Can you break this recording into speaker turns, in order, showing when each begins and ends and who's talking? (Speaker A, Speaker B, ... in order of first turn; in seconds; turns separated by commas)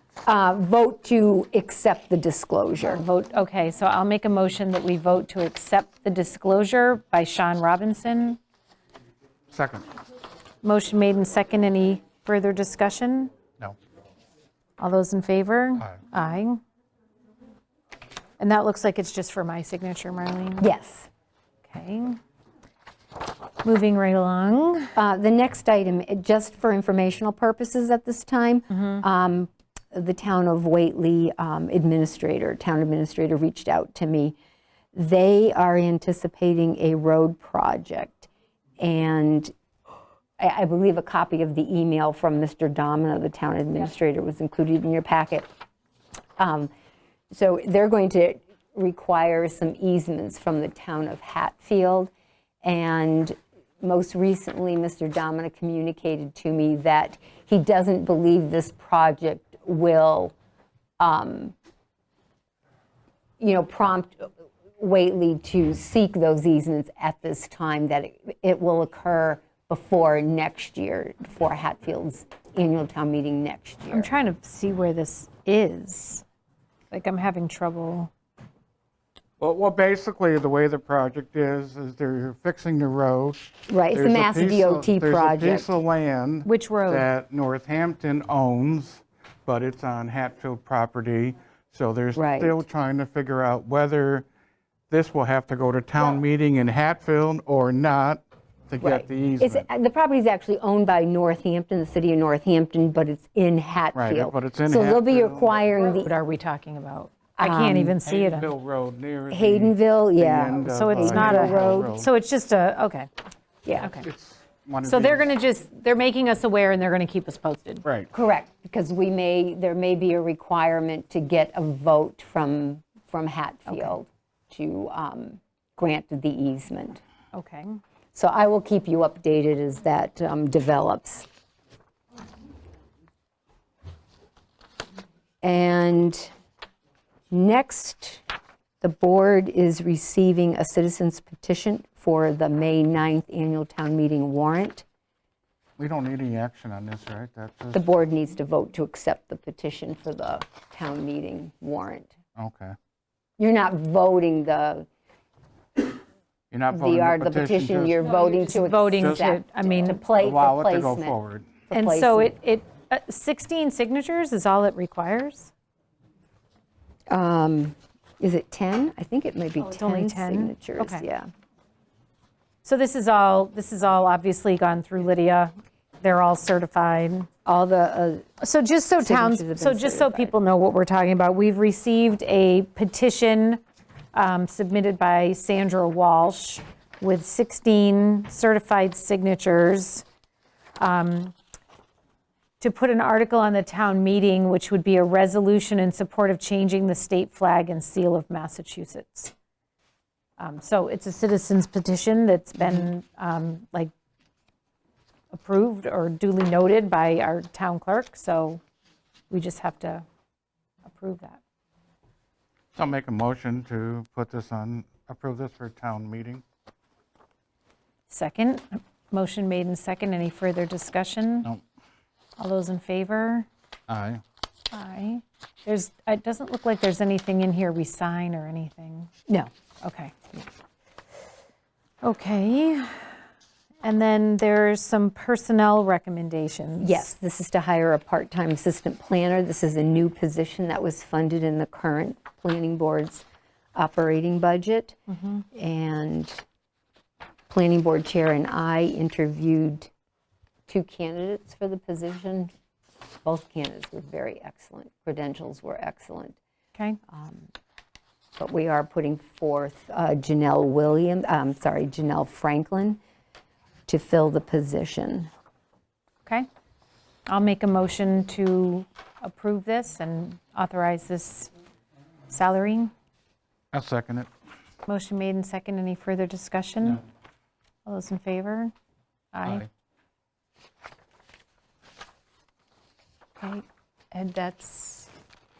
Speaker A: 0.2-3.0, Speaker B: 2.8-8.4, Speaker C: 9.5-9.8, Speaker B: 10.6-13.3, Speaker B: 14.8-16.6, Speaker B: 18.4-20.7, Speaker A: 20.6-21.1, Speaker B: 21.6-22.2, Speaker B: 23.6-24.9, Speaker A: 24.9-34.4, Speaker A: 34.9-39.5, Speaker A: 40.4-45.5, Speaker A: 46.4-46.7, Speaker A: 47.3-60.3, Speaker A: 61.0-61.5, Speaker A: 63.4-74.1, Speaker B: 73.9-76.2, Speaker B: 76.9-78.1, Speaker C: 79.4-94.2, Speaker A: 83.7-85.7, Speaker B: 86.4-87.1, Speaker A: 92.1-92.6, Speaker C: 94.9-99.7, Speaker A: 98.8-106.1, Speaker C: 103.9-105.5, Speaker B: 106.0-108.5, Speaker A: 107.4-108.0, Speaker C: 108.0-112.1, Speaker A: 109.3-111.9, Speaker B: 110.6-113.1, Speaker A: 113.6-113.9, Speaker B: 113.7-114.1, Speaker C: 113.9-115.3, Speaker B: 114.8-117.8, Speaker C: 117.8-118.1, Speaker A: 118.1-127.0, Speaker B: 123.7-124.0, Speaker B: 127.3-127.8, Speaker A: 128.1-131.2, Speaker A: 135.4-136.3, Speaker A: 137.3-138.2, Speaker A: 138.8-144.8, Speaker C: 145.8-147.8, Speaker A: 147.7-152.1, Speaker C: 152.3-152.7, Speaker A: 153.4-154.9, Speaker C: 156.5-157.9, Speaker A: 156.7-161.2, Speaker B: 158.2-160.0, Speaker C: 159.0-159.4, Speaker C: 160.1-161.5, Speaker A: 161.7-162.3, Speaker B: 161.7-165.5, Speaker A: 167.1-171.3, Speaker B: 169.6-171.0, Speaker B: 172.6-177.3, Speaker A: 177.4-178.3, Speaker B: 178.4-190.0, Speaker A: 179.0-180.3, Speaker B: 190.8-191.3, Speaker B: 192.6-199.3, Speaker B: 200.4-203.9, Speaker A: 202.6-202.9, Speaker B: 205.3-208.6, Speaker B: 209.3-210.0, Speaker B: 210.8-211.4, Speaker C: 212.7-216.4, Speaker B: 218.1-221.5, Speaker B: 222.4-223.5, Speaker C: 223.9-224.2, Speaker B: 224.7-229.1, Speaker B: 229.8-230.2, Speaker B: 232.0-233.2, Speaker B: 233.8-237.1, Speaker A: 236.8-243.2, Speaker A: 243.7-245.0, Speaker B: 245.1-245.4, Speaker A: 245.5-246.4, Speaker A: 247.5-249.9, Speaker A: 250.7-252.5, Speaker A: 253.2-256.4, Speaker A: 257.1-257.5, Speaker A: 258.4-263.0, Speaker A: 263.9-265.3, Speaker B: 267.3-271.5, Speaker B: 272.3-272.9, Speaker C: 273.7-274.3, Speaker B: 274.9-277.0, Speaker B: 277.8-278.7, Speaker B: 279.3-279.6, Speaker B: 283.4-285.1